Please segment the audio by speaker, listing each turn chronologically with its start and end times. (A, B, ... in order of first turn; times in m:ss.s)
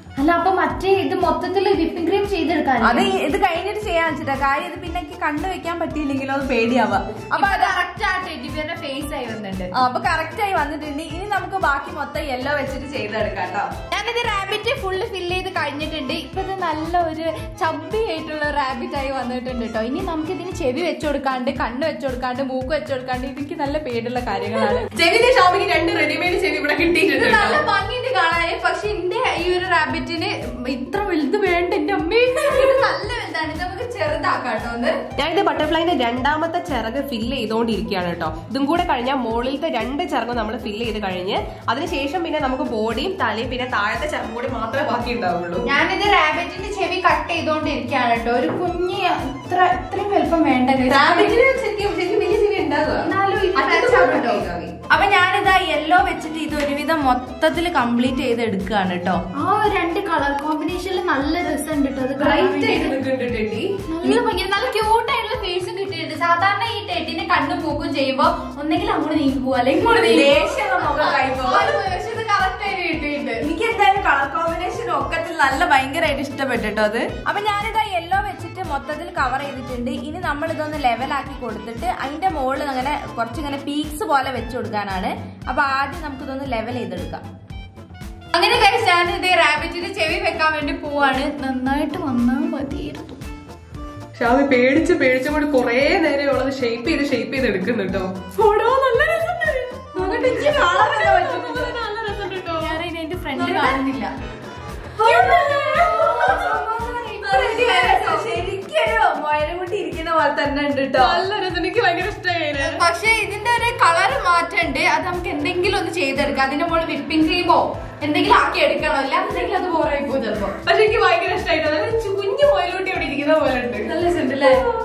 0:00.2-0:03.1 A
0:02.8-0:07.8 B
0:07.3-0:09.7 A
0:09.7-0:13.7 B
0:13.9-0:24.9 A
0:24.9-0:27.6 C
0:27.1-0:35.0 A
0:35.2-0:45.6 C
0:45.6-0:51.4 A
0:50.9-0:54.7 C
0:53.0-0:54.4 A
0:54.9-0:59.2 B
0:59.3-1:02.9 A
1:02.2-1:03.7 C
1:03.9-1:13.4 A
1:09.8-1:11.8 B
1:13.4-1:27.2 B
1:28.3-1:33.2 A
1:34.2-1:42.8 C
1:39.9-1:41.6 A
1:40.0-1:41.7 B
1:42.6-1:44.1 A
1:43.3-1:43.8 C
1:45.0-1:46.6 B
1:45.0-1:45.8 C
1:45.0-1:48.3 A
1:47.2-1:51.2 B
1:50.9-1:52.8 C
1:52.6-2:00.5 A
2:00.6-2:04.6 C
2:03.8-2:04.6 A